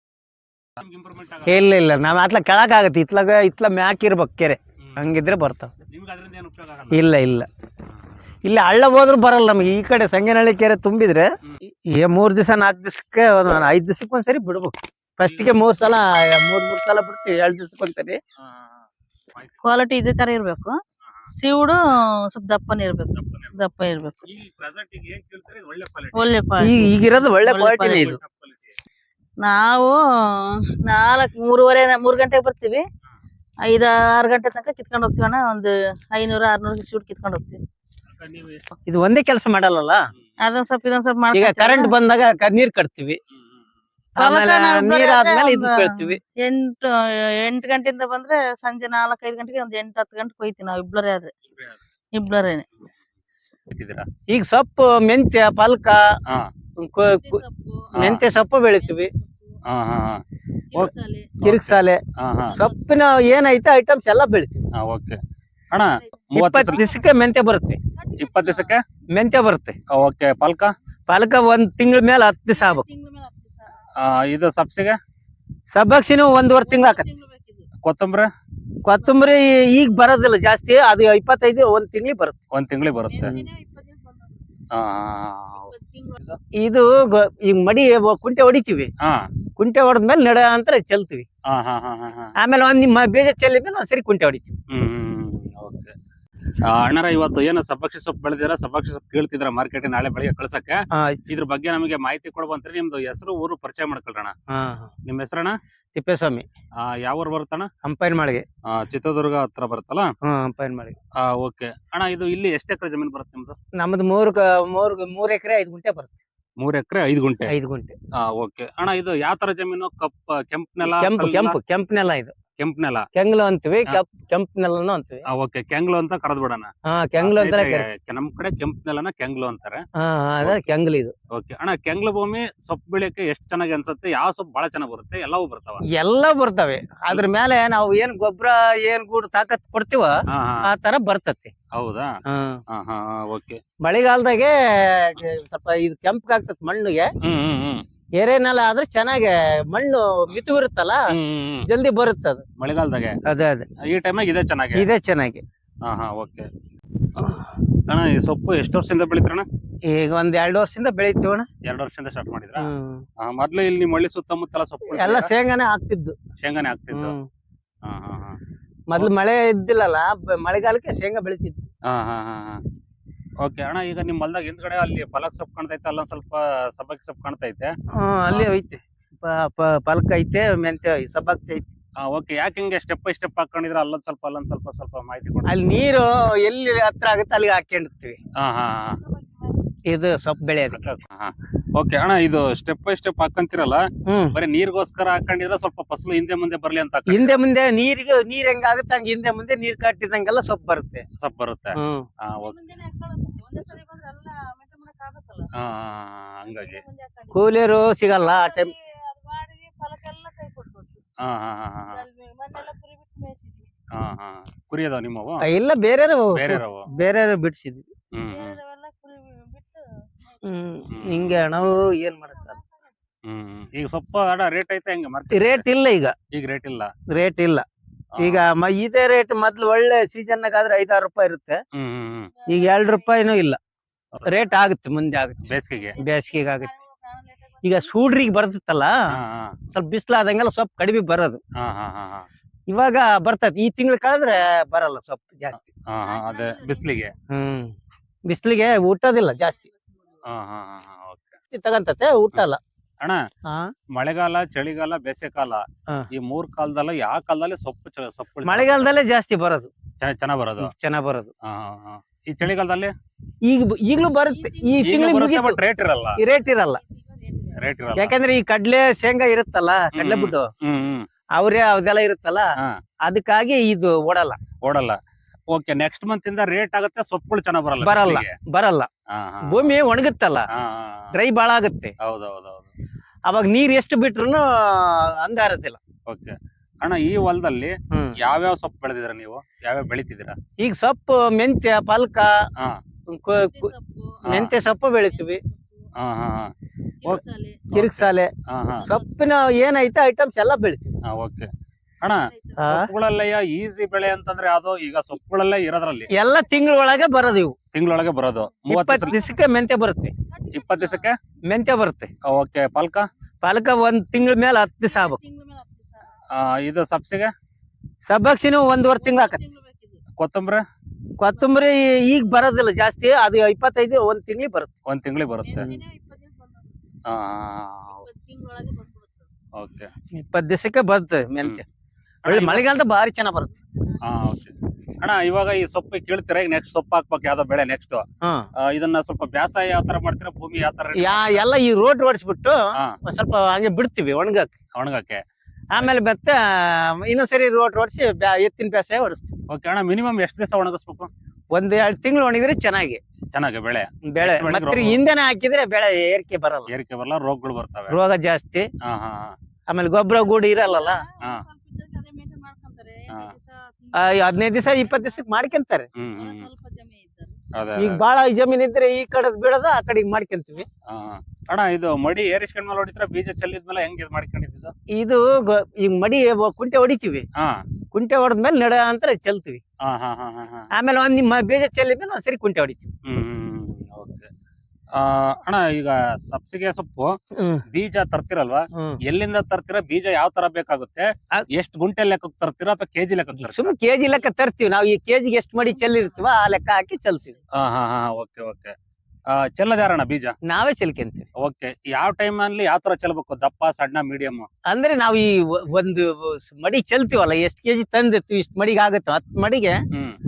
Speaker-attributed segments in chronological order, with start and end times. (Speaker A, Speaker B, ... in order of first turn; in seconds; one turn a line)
Speaker A: 0.8-1.7
Speaker B: 1.5-5.7
Speaker A: 4.8-5.2
Speaker A: 5.9-7.1
Speaker B: 6.9-7.5
Speaker A: 7.9-8.2
Speaker B: 8.4-11.3
Speaker B: 11.9-18.2
Speaker A: 15.2-15.6
Speaker A: 18.4-19.6
Speaker C: 19.6-20.8
Speaker A: 21.0-21.3
Speaker C: 21.3-24.2
Speaker A: 23.1-23.7
Speaker A: 24.3-26.4
Speaker C: 26.1-26.9
Speaker B: 26.6-28.2
Speaker C: 27.4-28.2
Speaker A: 27.8-28.8
Speaker C: 29.4-32.8
Speaker C: 33.7-37.6
Speaker A: 38.1-38.7
Speaker B: 38.9-40.1
Speaker C: 40.4-41.9
Speaker B: 41.3-43.2
Speaker A: 43.3-43.8
Speaker B: 44.2-46.2
Speaker C: 44.2-51.3
Speaker A: 51.5-51.8
Speaker C: 52.2-52.6
Speaker A: 53.7-54.0
Speaker B: 54.3-56.0
Speaker B: 56.8-57.4
Speaker C: 57.0-59.6
Speaker A: 58.0-58.2
Speaker B: 58.0-59.1
Speaker A: 59.6-60.2
Speaker C: 60.7-61.4
Speaker A: 60.7-62.6
Speaker B: 61.4-64.7
Speaker A: 64.8-65.2
Speaker A: 65.7-66.9
Speaker C: 66.0-67.1
Speaker B: 66.3-67.8
Speaker C: 68.0-68.8
Speaker A: 68.2-68.8
Speaker B: 69.1-69.8
Speaker A: 69.9-70.8
Speaker B: 71.1-72.8
Speaker C: 72.5-73.8
Speaker A: 74.0-75.0
Speaker B: 75.7-77.1
Speaker C: 76.6-77.7
Speaker A: 77.8-78.3
Speaker B: 78.8-82.4
Speaker C: 78.9-79.6
Speaker A: 82.5-83.4
Speaker C: 83.1-84.5
Speaker A: 84.7-86.4
Speaker C: 85.6-86.2
Speaker B: 86.6-88.9
Speaker A: 89.0-89.3
Speaker B: 89.6-91.2
Speaker A: 91.5-92.3
Speaker B: 92.4-94.6
Speaker A: 94.7-96.0
Speaker A: 96.6-104.3
Speaker B: 100.9-101.2
Speaker B: 104.5-104.9
Speaker A: 105.0-105.6
Speaker B: 106.0-106.5
Speaker A: 106.8-107.7
Speaker B: 107.8-108.5
Speaker A: 108.7-110.1
Speaker B: 110.2-111.0
Speaker A: 111.2-113.6
Speaker B: 113.8-116.2
Speaker A: 116.6-117.5
Speaker B: 117.5-118.0
Speaker A: 118.2-121.6
Speaker B: 120.8-122.3
Speaker A: 122.6-123.1
Speaker B: 123.2-125.2
Speaker A: 125.3-129.8
Speaker B: 126.9-127.9
Speaker B: 130.0-131.1
Speaker A: 131.3-135.8
Speaker B: 135.9-141.5
Speaker A: 140.3-140.7
Speaker A: 141.7-142.1
Speaker B: 142.3-142.6
Speaker A: 142.7-143.6
Speaker B: 143.8-147.1
Speaker A: 147.2-147.8
Speaker B: 148.2-151.0
Speaker A: 151.1-151.7
Speaker B: 151.7-152.4
Speaker A: 152.6-153.2
Speaker B: 153.2-153.7
Speaker A: 153.9-154.9
Speaker B: 154.8-155.4
Speaker A: 155.8-156.5
Speaker A: 157.9-159.5
Speaker B: 159.8-161.5
Speaker A: 161.7-165.3
Speaker B: 162.6-163.1
Speaker B: 164.9-166.2
Speaker A: 166.4-167.2
Speaker B: 166.9-167.3
Speaker A: 167.8-168.4
Speaker B: 168.9-171.7
Speaker A: 171.9-172.6
Speaker A: 173.4-177.7
Speaker B: 177.9-181.7
Speaker A: 182.0-185.6
Speaker B: 185.5-188.2
Speaker A: 188.4-189.0
Speaker C: 188.9-189.6
Speaker B: 189.9-190.8
Speaker A: 190.7-197.4
Speaker B: 194.1-194.4
Speaker B: 197.1-201.1
Speaker A: 201.2-202.6
Speaker B: 201.8-202.1
Speaker C: 202.4-205.5
Speaker A: 205.5-206.8
Speaker C: 206.5-211.0
Speaker B: 207.3-208.7
Speaker A: 211.2-212.0
Speaker C: 211.9-213.7
Speaker A: 213.9-215.4
Speaker B: 215.4-217.9
Speaker A: 216.3-216.9
Speaker A: 218.1-218.6
Speaker C: 218.3-220.8
Speaker B: 220.4-222.6
Speaker A: 220.9-221.4
Speaker C: 221.6-222.9
Speaker A: 223.2-225.6
Speaker B: 225.3-226.2
Speaker A: 226.3-226.9
Speaker B: 227.1-227.7
Speaker A: 228.2-228.4
Speaker B: 228.2-231.6
Speaker A: 231.7-232.3
Speaker C: 232.4-233.3
Speaker B: 232.5-233.6
Speaker B: 234.2-235.4
Speaker A: 235.4-236.0
Speaker C: 235.7-238.2
Speaker B: 236.0-236.7
Speaker B: 237.6-239.0
Speaker A: 239.1-239.6
Speaker B: 239.7-241.4
Speaker A: 241.6-242.3
Speaker B: 242.7-245.6
Speaker A: 245.5-247.1
Speaker C: 245.9-247.2
Speaker B: 247.3-247.7
Speaker B: 248.3-249.6
Speaker C: 249.3-250.2
Speaker A: 250.2-251.4
Speaker B: 251.5-252.6
Speaker B: 253.5-253.7
Speaker A: 253.9-258.9
Speaker B: 258.4-259.7
Speaker A: 260.0-260.7
Speaker B: 260.6-261.3
Speaker A: 261.4-262.9
Speaker B: 263.4-265.6
Speaker C: 264.3-265.2
Speaker A: 264.8-266.2
Speaker B: 266.2-266.8
Speaker C: 266.2-267.6
Speaker A: 267.6-268.2
Speaker B: 268.0-270.5
Speaker A: 269.9-271.1
Speaker B: 271.4-272.5
Speaker B: 273.1-274.4
Speaker A: 274.6-275.0
Speaker A: 275.5-278.4
Speaker B: 277.8-278.9
Speaker A: 279.1-279.8
Speaker B: 279.5-280.5
Speaker A: 280.5-281.1
Speaker B: 281.1-281.9
Speaker A: 282.0-282.7
Speaker B: 283.3-285.8
Speaker A: 286.1-290.4
Speaker B: 290.6-292.4
Speaker B: 293.1-293.7
Speaker C: 293.4-295.9
Speaker A: 294.3-294.6
Speaker B: 294.3-295.4
Speaker A: 295.9-296.5
Speaker C: 297.0-297.6
Speaker A: 297.7-298.9
Speaker B: 297.7-301.0
Speaker A: 301.1-301.5
Speaker A: 302.0-306.1
Speaker C: 302.3-302.7
Speaker B: 302.6-302.9
Speaker B: 306.1-307.6
Speaker C: 306.2-307.4
Speaker A: 307.7-309.1
Speaker B: 308.7-310.1
Speaker C: 308.9-309.4
Speaker C: 310.3-311.1
Speaker A: 310.5-311.2
Speaker B: 311.5-312.1
Speaker A: 312.2-313.1
Speaker B: 313.4-315.2
Speaker C: 314.8-316.1
Speaker A: 316.3-317.3
Speaker B: 318.1-319.4
Speaker C: 318.9-320.0
Speaker A: 320.2-320.6
Speaker B: 321.2-324.7
Speaker A: 324.9-325.7
Speaker C: 325.4-326.8
Speaker A: 327.1-328.1
Speaker C: 327.9-329.3
Speaker A: 329.6-329.9
Speaker B: 330.1-331.6
Speaker A: 332.2-332.7
Speaker B: 332.3-333.5
Speaker A: 334.0-338.1
Speaker B: 338.2-338.5
Speaker A: 338.6-341.5
Speaker B: 341.0-344.5
Speaker A: 344.8-345.2
Speaker B: 345.7-349.3
Speaker A: 349.5-351.1
Speaker B: 351.5-353.0
Speaker A: 353.3-355.0
Speaker B: 354.1-356.7
Speaker A: 356.7-358.0
Speaker B: 357.9-358.7
Speaker A: 358.8-359.4
Speaker B: 359.7-361.0
Speaker C: 360.1-365.5
Speaker B: 363.9-365.9
Speaker A: 366.0-366.5
Speaker C: 366.1-367.4
Speaker A: 367.5-368.0
Speaker B: 367.8-370.7
Speaker A: 370.9-374.7
Speaker B: 374.9-377.3
Speaker A: 377.4-377.6
Speaker B: 377.9-379.6
Speaker A: 379.8-380.7
Speaker B: 380.7-382.9
Speaker A: 383.1-384.3
Speaker A: 384.9-387.2
Speaker B: 387.4-387.6
Speaker A: 387.7-393.8
Speaker B: 393.4-397.4
Speaker C: 395.7-396.4
Speaker A: 397.5-398.8
Speaker A: 399.3-400.3
Speaker B: 400.4-401.3
Speaker A: 401.4-404.5
Speaker B: 404.7-409.8
Speaker A: 409.9-410.2